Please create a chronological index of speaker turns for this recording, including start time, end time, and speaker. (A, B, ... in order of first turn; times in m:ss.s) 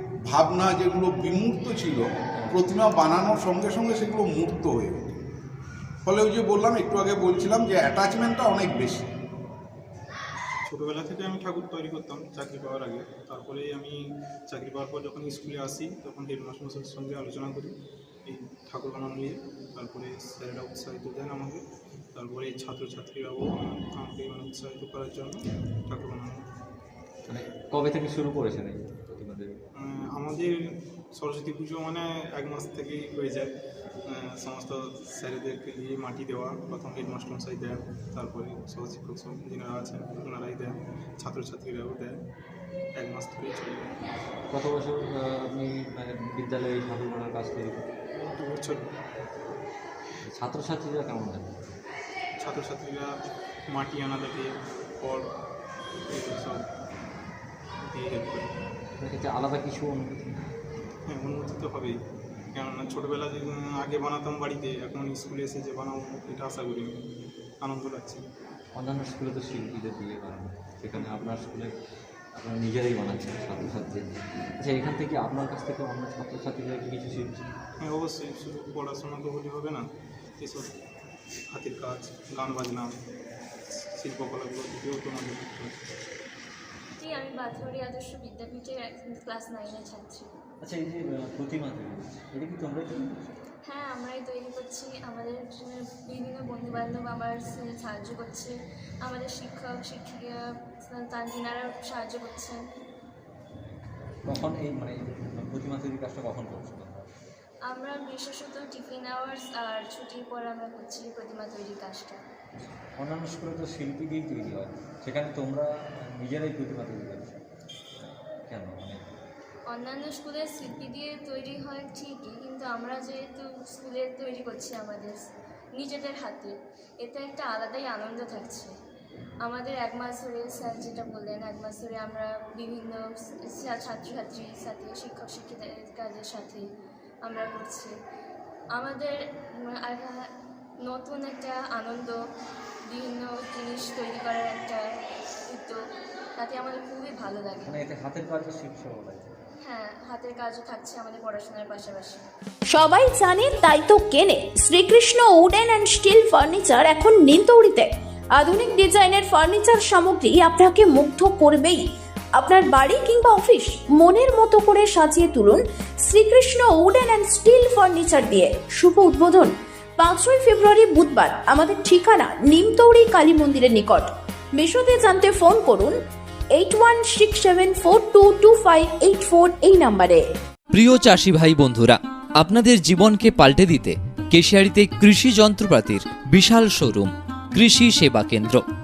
0:00.3-0:05.0 A
0:06.0-0:09.0 A
0:10.7-0:13.9 B
0:14.5-0:17.7 B
0:18.2-0:21.6 B
0:22.1-0:26.4 B
0:27.2-0:29.6 C
0:29.8-0:30.6 B
0:31.2-0:33.5 B
0:34.1-0:42.2 B
0:43.0-0:43.9 B
0:44.5-0:47.8 C
0:48.3-0:48.8 B
0:50.2-0:51.7 C
0:52.4-0:53.2 B
0:53.7-0:55.2 B
0:56.1-0:56.6 B
0:57.8-0:58.5 B
0:59.0-1:00.4 C
1:01.1-1:01.9 B
1:02.6-1:06.9 B
1:07.6-1:08.2 B
1:08.7-1:11.7 C
1:12.3-1:17.5 C
1:17.8-1:19.8 B
1:20.4-1:20.7 B
1:21.5-1:22.9 B
1:23.7-1:25.8 B
1:27.0-1:30.3 D
1:30.6-1:33.4 C
1:33.7-1:42.6 D
1:44.2-1:47.1 C
1:47.7-1:52.2 D
1:53.0-1:57.4 C
1:58.5-1:59.2 C
1:59.7-2:05.2 D
2:05.8-2:08.7 D
2:09.4-2:16.6 D
2:17.2-2:17.9 D
2:18.7-2:20.3 D
2:20.8-2:22.2 D
2:22.9-2:24.9 D
2:25.5-2:25.8 D
2:26.4-2:27.8 D
2:27.6-2:29.4 C
2:29.6-2:32.2 D
2:32.7-2:41.8 E
2:42.4-2:56.0 E
2:56.5-3:00.2 E
3:00.7-3:08.6 F